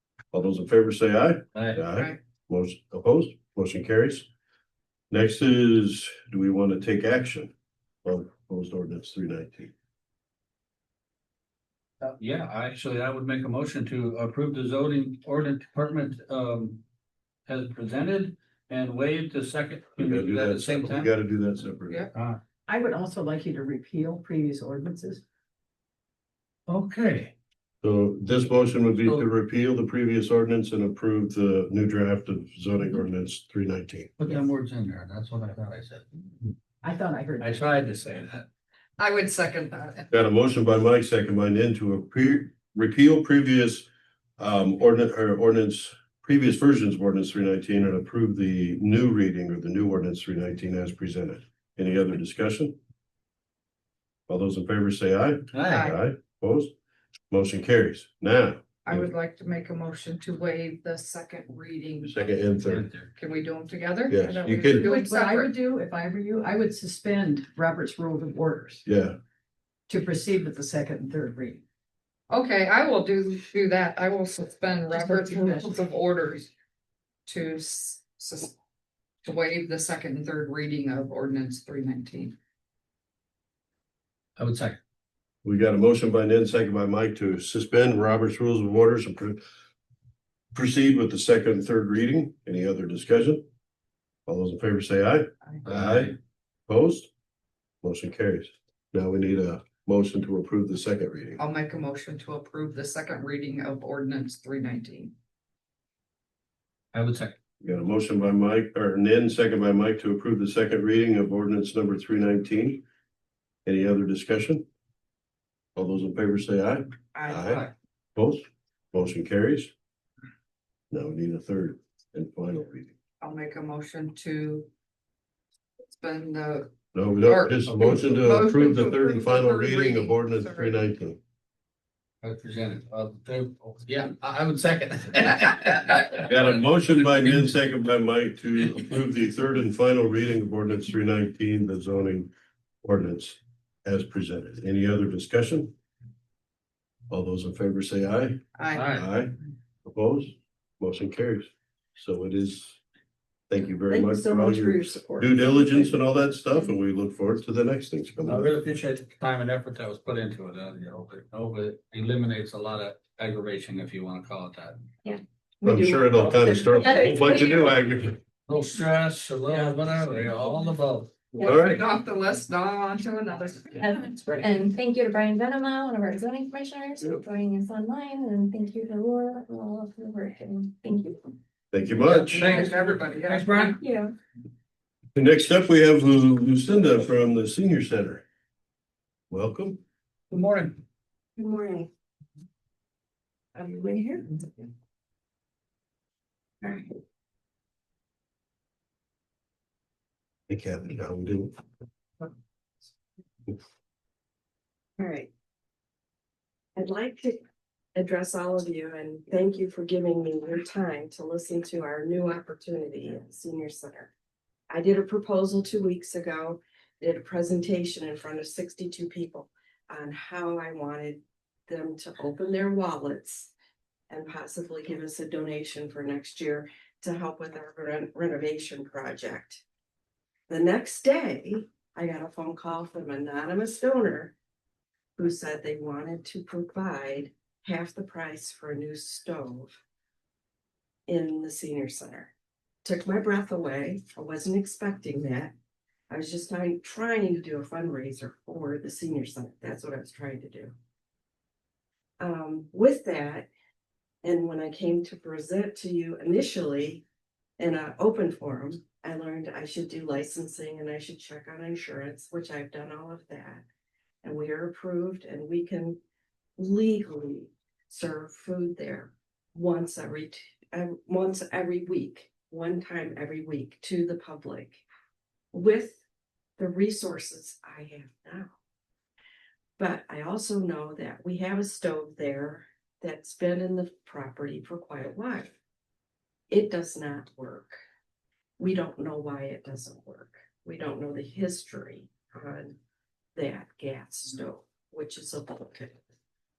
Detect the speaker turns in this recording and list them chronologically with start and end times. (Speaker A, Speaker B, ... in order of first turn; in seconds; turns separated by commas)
Speaker A: 0.3-4.3, Speaker B: 1.5-1.8, Speaker A: 5.1-7.5, Speaker A: 8.0-9.7, Speaker B: 12.0-16.8, Speaker B: 17.5-21.1, Speaker A: 20.0-22.1, Speaker B: 22.1-22.4, Speaker C: 22.7-25.2, Speaker B: 26.7-27.3, Speaker A: 27.8-34.1, Speaker B: 34.2-36.3, Speaker C: 36.8-37.7, Speaker B: 37.4-38.5, Speaker D: 39.0-40.0, Speaker A: 40.1-43.9, Speaker A: 44.4-52.8, Speaker A: 54.3-56.7, Speaker B: 55.5-55.9, Speaker D: 55.7-56.0, Speaker A: 57.3-59.1, Speaker D: 58.8-62.5, Speaker A: 62.0-62.9, Speaker B: 62.6-63.1, Speaker D: 63.1-65.5, Speaker A: 64.1-64.9, Speaker C: 64.8-68.8, Speaker A: 68.8-69.2, Speaker C: 69.9-71.6, Speaker D: 72.3-76.5, Speaker C: 74.9-75.8, Speaker D: 77.3-78.5, Speaker D: 79.2-82.3, Speaker B: 84.4-84.8, Speaker A: 85.4-89.4, Speaker A: 90.5-93.4, Speaker A: 94.3-96.1, Speaker B: 95.7-96.1, Speaker A: 96.7-97.1, Speaker A: 97.8-101.4, Speaker D: 101.4-105.1, Speaker B: 106.9-107.3, Speaker A: 107.6-112.8, Speaker A: 113.7-114.6, Speaker A: 115.8-119.7, Speaker E: 117.1-117.7, Speaker A: 120.9-122.9, Speaker D: 123.2-124.7, Speaker D: 125.8-130.8, Speaker A: 126.9-131.2, Speaker B: 132.2-137.5, Speaker A: 136.2-142.3, Speaker A: 142.8-145.7, Speaker A: 147.1-148.4, Speaker D: 148.6-148.9, Speaker B: 148.7-149.1, Speaker A: 148.9-149.3, Speaker A: 149.8-152.8, Speaker A: 153.5-158.5, Speaker C: 153.9-155.9, Speaker B: 158.2-164.8, Speaker A: 165.6-168.2, Speaker C: 165.6-166.0, Speaker F: 166.7-167.7, Speaker B: 168.5-171.4, Speaker A: 171.4-171.8, Speaker D: 171.4-174.4, Speaker F: 173.8-181.2, Speaker A: 181.7-182.5, Speaker B: 182.0-183.8, Speaker D: 182.2-183.7, Speaker F: 183.6-184.1, Speaker A: 185.1-188.2, Speaker A: 189.3-189.8, Speaker E: 191.4-191.9, Speaker E: 193.5-194.6, Speaker E: 196.6-196.9, Speaker A: 200.5-201.5, Speaker E: 205.0-205.3, Speaker E: 206.8-207.4, Speaker E: 207.9-214.1, Speaker E: 214.7-223.5, Speaker E: 224.1-229.6, Speaker E: 230.5-234.3, Speaker E: 235.2-239.7, Speaker E: 241.1-242.3, Speaker E: 242.8-245.5, Speaker E: 246.1-250.7, Speaker E: 252.2-253.5, Speaker E: 254.2-257.0, Speaker E: 257.6-263.6, Speaker E: 264.2-266.0, Speaker E: 266.6-274.8, Speaker E: 275.5-276.0, Speaker E: 276.6-278.5, Speaker E: 279.8-285.5, Speaker E: 286.5-287.8, Speaker E: 288.6-292.8, Speaker E: 293.4-296.0